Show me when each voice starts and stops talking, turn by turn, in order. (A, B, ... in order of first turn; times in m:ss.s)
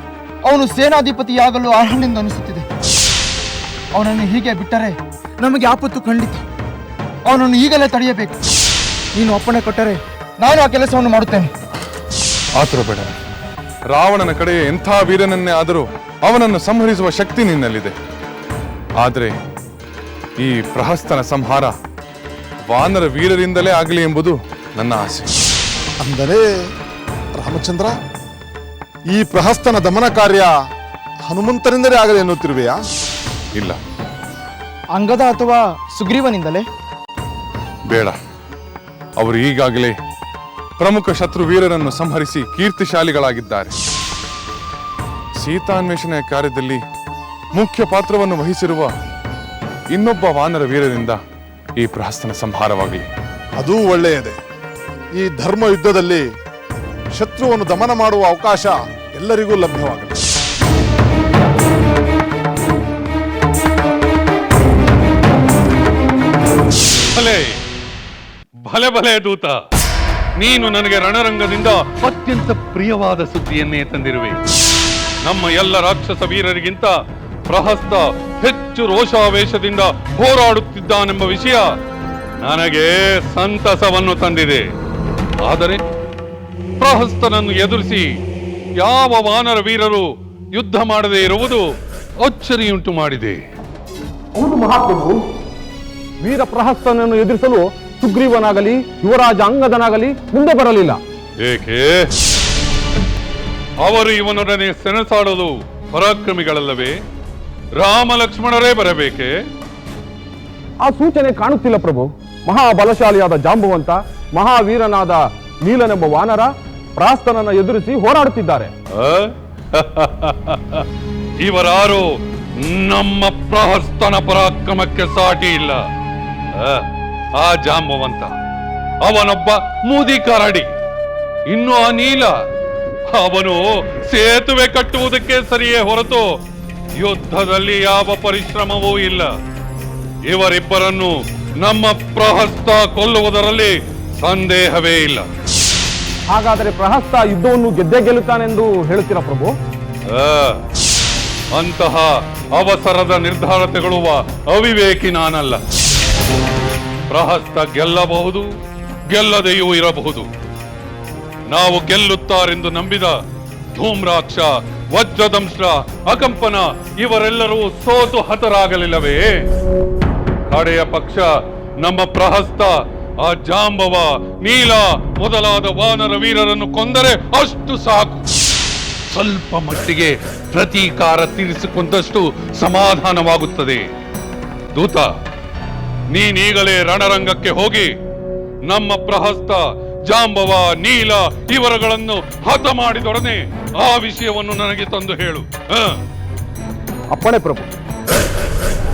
0:00.4-0:02.6 A
0:03.9-0:06.4 A
0:07.2-0:08.4 A
0:09.1-0:11.5 A
0:12.6-0:13.1 B
0:13.9-0:17.9 B
0:19.0-0:19.3 B
0:20.4-0:21.7 B
0:22.7-0:25.3 B
0:26.0-0:26.5 C
0:27.4-0:27.9 C
0:29.1-0:30.5 C
0:31.2-0:32.8 C
0:35.0-0:36.6 A
0:37.9-0:38.1 B
0:39.2-0:39.9 B
0:40.8-0:43.7 B
0:45.4-0:46.8 B
0:47.5-0:48.9 B
0:49.9-0:51.2 B
0:51.8-0:53.1 B
0:53.6-0:54.4 C
0:55.2-0:56.2 C
0:57.1-1:00.2 C
1:07.1-1:07.6 D
1:08.6-1:09.6 D
1:10.4-1:14.4 D
1:15.2-1:16.9 D
1:17.5-1:21.6 D
1:22.4-1:24.6 D
1:25.4-1:25.8 D
1:26.8-1:28.0 D
1:28.8-1:31.6 D
1:32.2-1:33.4 D
1:34.4-1:35.2 E
1:36.2-1:41.0 E
1:41.4-1:42.1 D
1:43.8-1:46.9 D
1:47.8-1:49.3 D
1:50.8-1:58.7 E
1:58.9-2:00.8 D
2:01.4-2:02.0 D
2:02.6-2:05.8 D
2:06.6-2:06.8 D
2:07.4-2:08.3 D
2:09.0-2:10.7 D
2:11.5-2:12.3 D
2:13.1-2:16.2 D
2:17.0-2:19.3 D
2:20.3-2:25.2 D
2:26.3-2:29.5 E
2:30.1-2:30.6 D
2:31.5-2:35.6 D
2:37.1-2:38.4 D
2:39.1-2:40.3 D
2:41.5-2:43.1 D
2:43.8-2:49.4 D
2:50.5-2:51.3 D
2:51.8-2:58.2 D
2:59.1-3:03.8 D
3:04.7-3:05.1 D
3:06.1-3:07.9 D
3:08.7-3:16.0 D
3:17.1-3:17.7 E